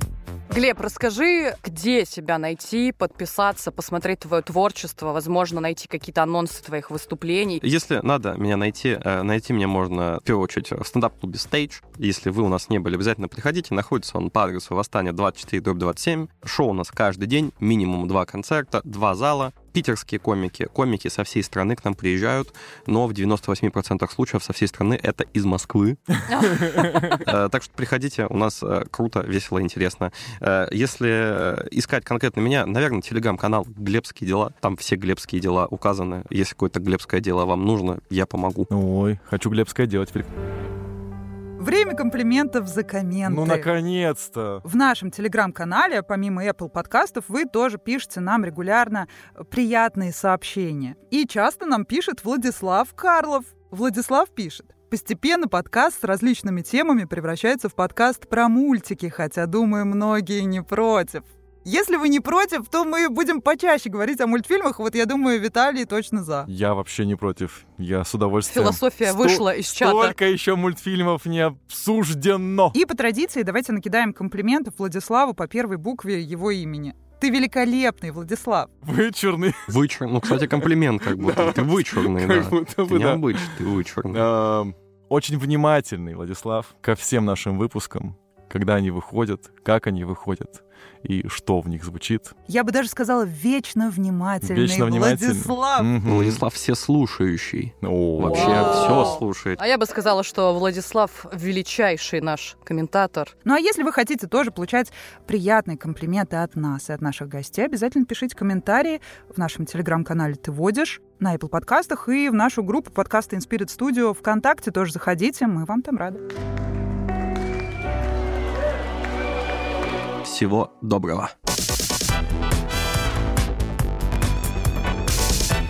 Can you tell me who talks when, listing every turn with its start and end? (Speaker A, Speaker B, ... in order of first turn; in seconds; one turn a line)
Speaker A: 0.5-7.6
Speaker B: 7.6-38.7
Speaker A: 26.3-27.2
Speaker C: 38.7-40.3
Speaker D: 41.6-43.7
Speaker C: 43.2-44.6
Speaker D: 44.6-66.5
Speaker C: 66.5-72.8
Speaker A: 68.5-70.2
Speaker D: 72.7-78.7
Speaker C: 78.8-92.3
Speaker B: 79.7-84.2
Speaker D: 92.5-95.9
Speaker C: 94.4-96.4
Speaker B: 96.0-99.6
Speaker C: 97.8-99.0
Speaker A: 98.3-103.3
Speaker D: 103.5-116.2
Speaker B: 120.2-121.3